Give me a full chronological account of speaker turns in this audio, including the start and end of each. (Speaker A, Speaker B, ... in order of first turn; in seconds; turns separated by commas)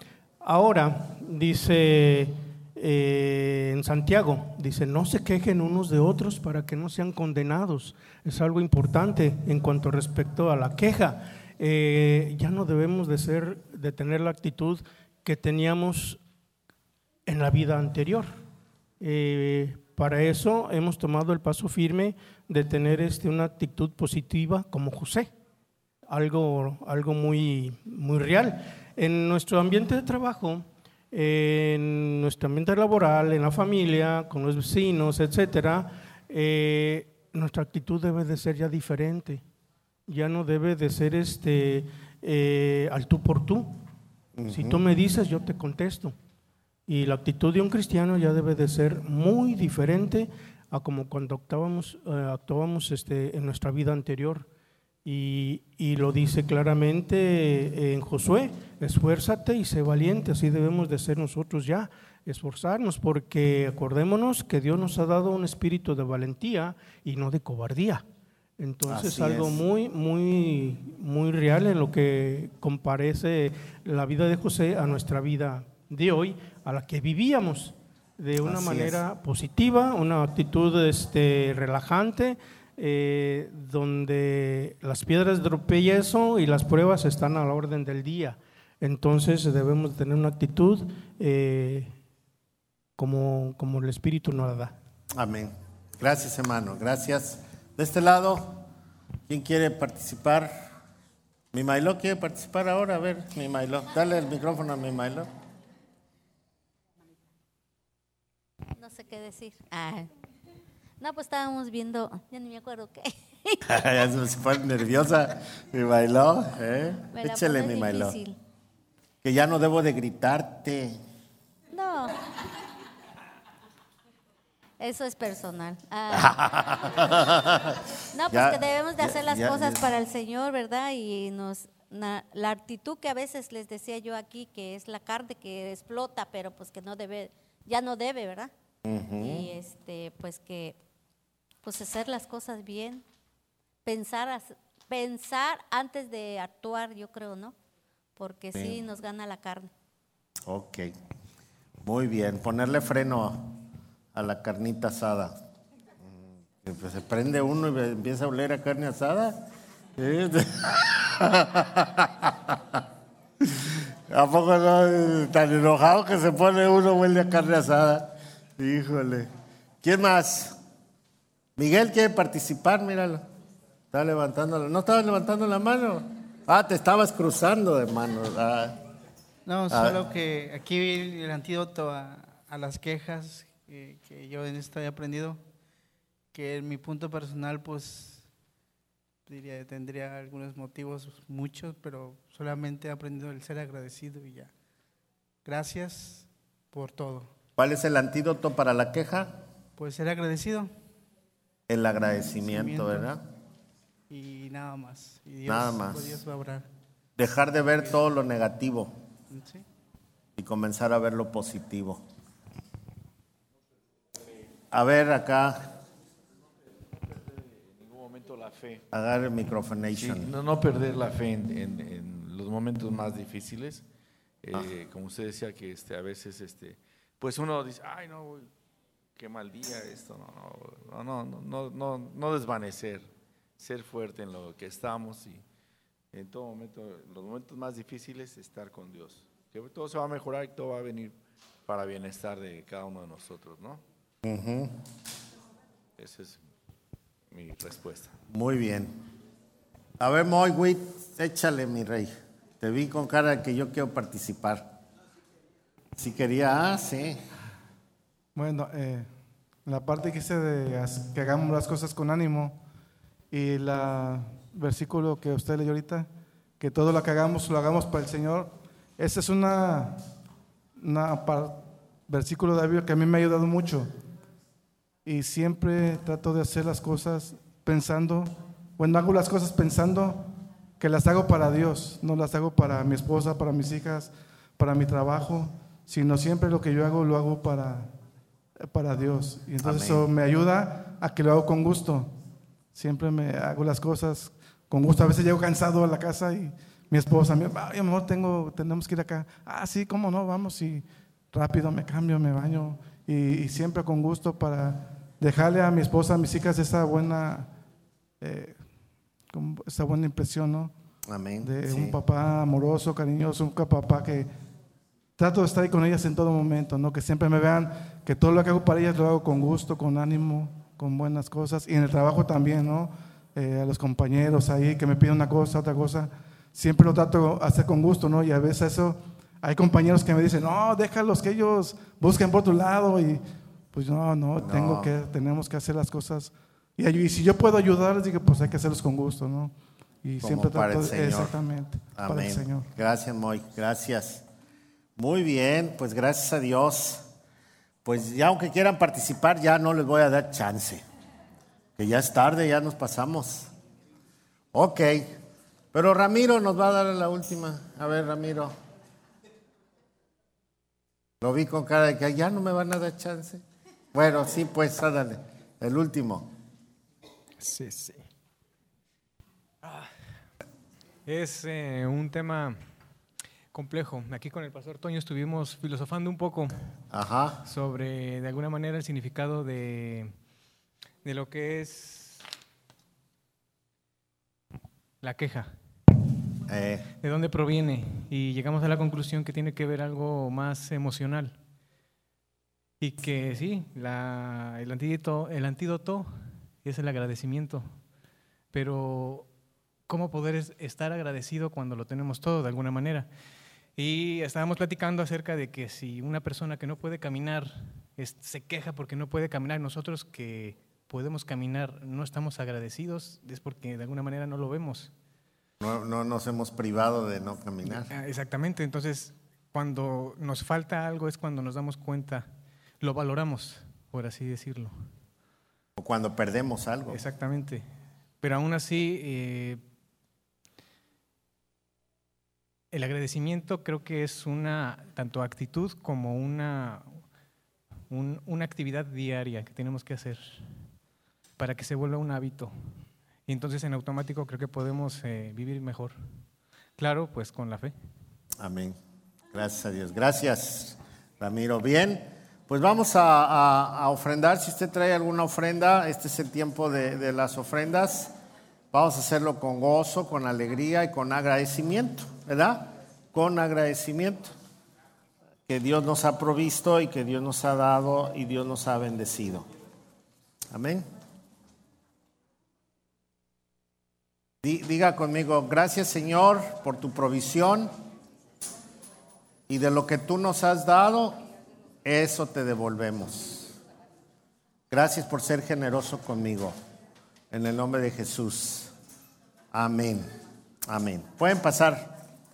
Speaker A: 0.4-16.2, Speaker A: 17.3-18.4, Speaker A: 19.0-25.3, Speaker A: 26.1-39.4, Speaker A: 40.1-43.8, Speaker B: 44.4-44.8, Speaker A: 44.5-46.1, Speaker A: 46.9-54.5, Speaker A: 55.0-68.0, Speaker A: 68.6-91.9, Speaker B: 68.9-69.6, Speaker B: 78.4-79.0, Speaker A: 93.0-94.8, Speaker B: 95.1-98.7, Speaker B: 99.3-100.7, Speaker B: 101.5-105.3, Speaker C: 108.8-110.1, Speaker C: 111.0-113.6, Speaker B: 113.7-118.2, Speaker C: 117.1-118.4, Speaker B: 119.2-121.0, Speaker C: 121.7-122.2, Speaker C: 124.8-126.4, Speaker B: 126.1-127.8, Speaker C: 128.1-138.5, Speaker B: 128.3-129.9, Speaker B: 138.8-139.5, Speaker C: 139.2-140.8, Speaker C: 141.6-143.0, Speaker C: 143.8-147.6, Speaker C: 148.2-149.7, Speaker B: 150.5-150.9, Speaker B: 151.8-153.6, Speaker B: 154.1-155.3, Speaker B: 156.6-159.4, Speaker B: 160.0-162.8, Speaker B: 163.4-169.3, Speaker B: 169.8-170.6, Speaker B: 171.6-173.2, Speaker B: 173.9-178.8, Speaker D: 179.5-185.4, Speaker B: 179.7-180.0, Speaker D: 186.3-188.3, Speaker D: 189.3-194.5, Speaker D: 195.4-197.3, Speaker B: 197.6-199.4, Speaker D: 199.8-200.7, Speaker B: 201.7-203.2, Speaker D: 202.4-203.1, Speaker D: 204.1-206.7, Speaker B: 205.5-206.2, Speaker B: 207.2-208.9, Speaker D: 209.3-209.7, Speaker B: 210.4-212.0, Speaker B: 214.7-215.7, Speaker E: 217.0-218.8, Speaker B: 218.9-220.3, Speaker E: 220.0-223.8, Speaker E: 224.4-228.5, Speaker E: 229.2-235.4, Speaker E: 236.1-243.8, Speaker B: 244.2-244.7, Speaker E: 246.0-246.4, Speaker E: 247.3-248.1, Speaker B: 248.3-249.0, Speaker B: 250.0-254.7, Speaker B: 256.0-257.2, Speaker F: 258.4-259.1, Speaker F: 259.7-262.6, Speaker F: 263.3-266.1, Speaker F: 266.6-270.0, Speaker F: 270.8-273.9, Speaker F: 275.1-287.9, Speaker F: 288.7-292.1, Speaker B: 289.6-290.1, Speaker F: 292.7-307.5, Speaker F: 308.2-308.6, Speaker F: 309.3-310.7, Speaker B: 311.1-312.0, Speaker F: 311.4-314.3, Speaker F: 315.2-342.7, Speaker B: 334.4-334.9, Speaker B: 340.2-341.4, Speaker B: 342.0-344.2, Speaker B: 345.0-347.1, Speaker B: 347.9-350.8, Speaker B: 351.8-353.5, Speaker B: 354.5-355.2, Speaker B: 355.7-358.5, Speaker B: 361.2-363.4, Speaker B: 363.9-366.3, Speaker E: 367.4-367.9, Speaker G: 369.6-369.9, Speaker G: 371.1-372.6, Speaker G: 373.5-376.5, Speaker B: 376.9-377.5, Speaker G: 377.5-380.1, Speaker G: 381.0-382.2, Speaker G: 385.0-385.5, Speaker B: 386.5-386.9, Speaker G: 387.0-391.4, Speaker G: 392.8-396.1, Speaker G: 396.6-397.7, Speaker G: 398.5-399.3, Speaker G: 399.9-403.1, Speaker G: 403.8-414.9, Speaker B: 415.6-417.9, Speaker G: 417.6-422.3, Speaker G: 422.8-424.7, Speaker B: 425.8-427.0, Speaker G: 426.9-427.6, Speaker G: 428.2-429.6, Speaker G: 432.7-437.0, Speaker G: 437.9-440.4, Speaker G: 441.4-442.5, Speaker G: 443.3-446.0, Speaker G: 446.8-447.7, Speaker B: 448.4-448.8, Speaker B: 449.3-458.1, Speaker B: 458.7-464.3, Speaker B: 465.5-469.5, Speaker B: 470.5-470.9, Speaker B: 474.4-477.7, Speaker B: 479.5-481.2, Speaker B: 481.9-483.6, Speaker B: 484.7-486.6, Speaker B: 487.3-488.7, Speaker B: 489.5-490.1, Speaker B: 490.7-491.9